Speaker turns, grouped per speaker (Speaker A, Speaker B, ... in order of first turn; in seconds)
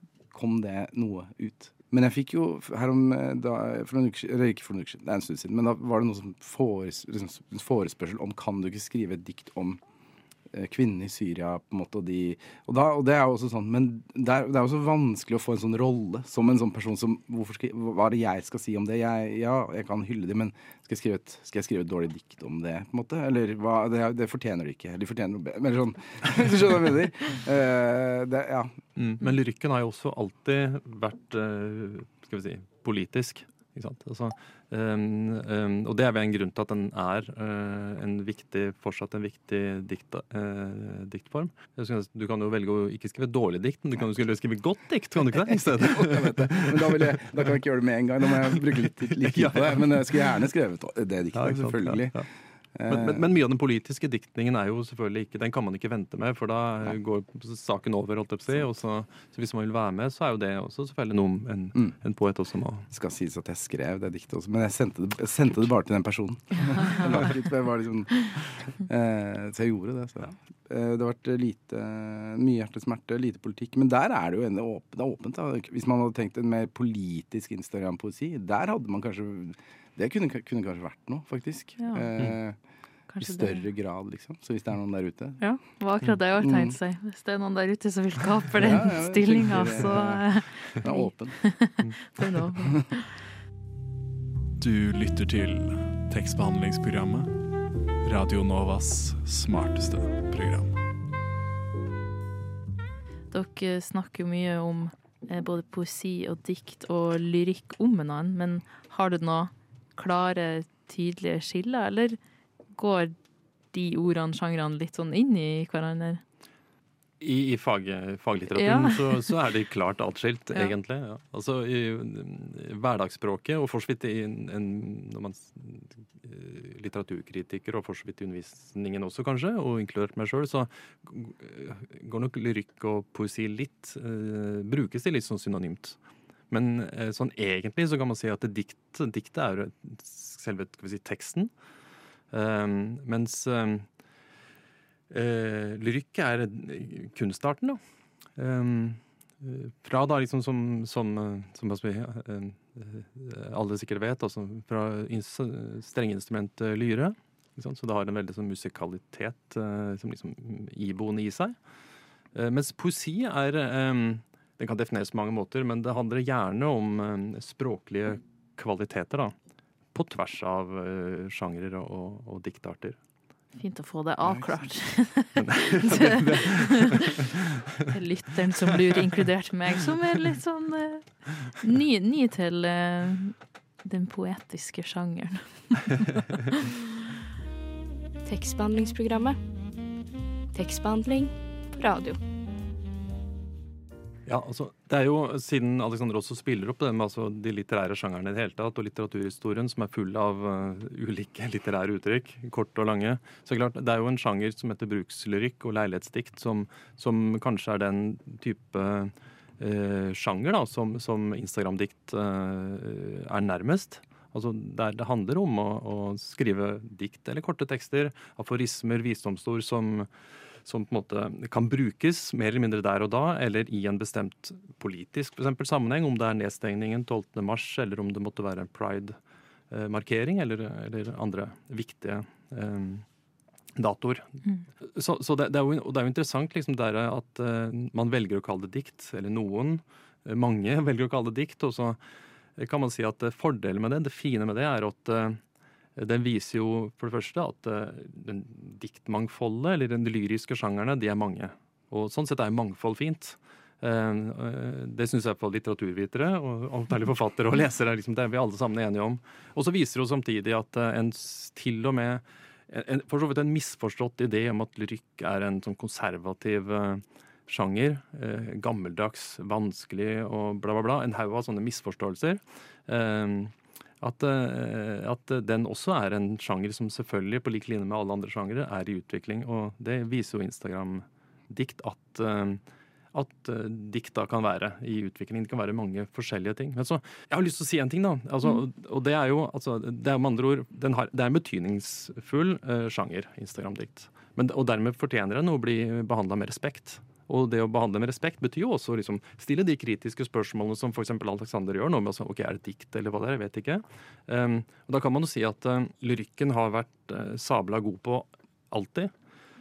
Speaker A: 0.3-9.8, 10.5-28.8, 45.5-52.1, 52.8-53.2, 62.9-82.6, 83.2-85.4, 86.4-86.8, 88.6-91.4
Speaker B: 29.0-47.1, 49.2-50.3, 51.3-52.3, 52.9-62.9, 117.2-136.0, 136.5-141.5, 142.3-143.9, 145.1-147.8, 148.4-161.6, 162.3-169.3, 169.9-173.0, 175.4-177.2, 194.3-220.1, 220.7-229.2, 229.7-233.1, 233.8-242.0, 242.6-245.4, 246.0-282.6, 283.1-309.1
Speaker C: 81.8-82.1, 83.1-83.7, 85.4-93.0, 103.3-112.2, 112.8-113.1, 113.7-116.2, 118.5-119.2, 173.6-177.0, 177.9-186.7
Speaker D: 94.6-97.4, 98.0-100.8
Speaker E: 188.3-189.4, 190.5-192.2